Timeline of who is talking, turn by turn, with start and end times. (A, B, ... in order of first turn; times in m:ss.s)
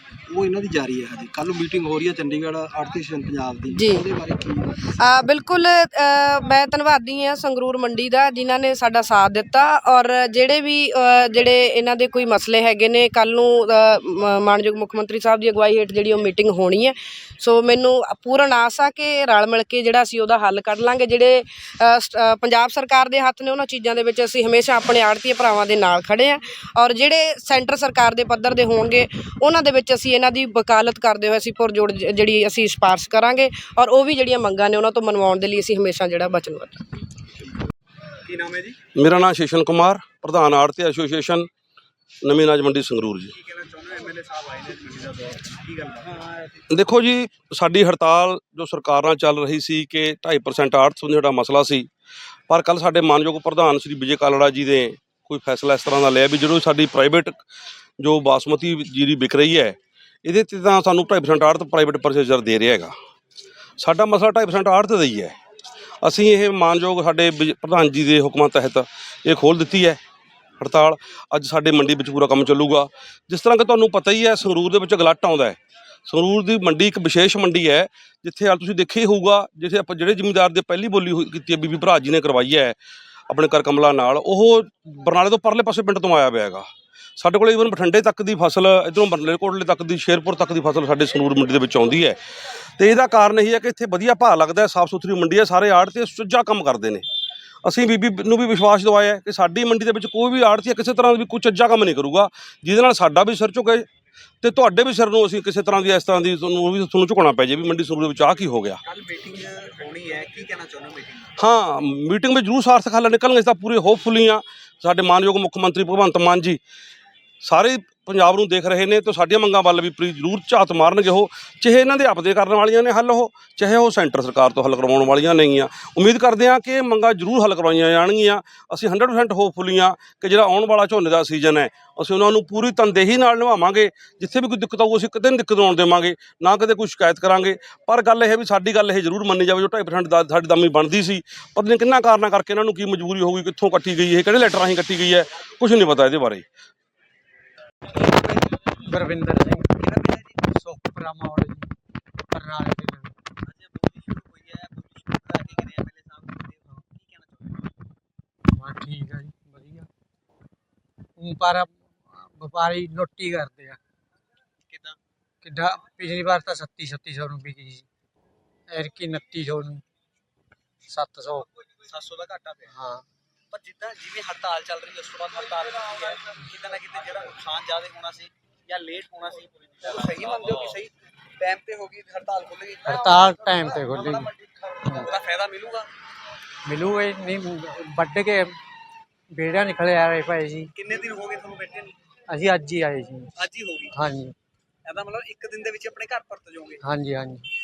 0:00.3-0:04.9 A
0:03.7-0:04.1 B
0:05.0-0:36.8 B
0:38.2-0:38.8 C
0:38.9-0:41.5 D
0:42.2-0:43.3 D
0:43.3-0:46.6 C
0:46.7-0:51.9 D
0:52.5-0:57.4 D
0:58.0-1:02.9 D
1:03.8-1:05.4 D
1:06.0-1:10.0 D
1:10.6-1:22.8 D
1:23.3-1:26.6 D
1:27.2-1:32.2 D
1:32.8-1:37.0 D
1:37.6-1:43.8 D
1:44.4-1:48.8 D
1:48.8-1:51.3 C
1:51.4-1:56.6 D
1:57.4-2:26.4 D
2:27.9-2:28.3 C
2:28.7-2:29.7 E
2:29.8-2:30.4 C
2:30.5-2:31.7 E
2:32.3-2:33.1 E
2:33.4-2:37.7 C
2:38.5-2:39.9 E
2:41.2-2:43.8 E
2:44.7-2:45.0 C
2:45.4-2:47.8 E
2:48.7-2:49.8 E
2:50.9-2:51.5 E
2:51.7-2:52.7 C
2:52.7-2:53.0 E
2:53.5-3:05.9 C
3:02.8-3:04.3 E
3:06.6-3:08.6 E
3:09.3-3:10.7 E
3:10.7-3:11.9 C
3:12.3-3:13.3 E
3:13.4-3:13.9 C
3:13.9-3:14.3 E
3:14.8-3:16.8 C
3:16.8-3:17.5 E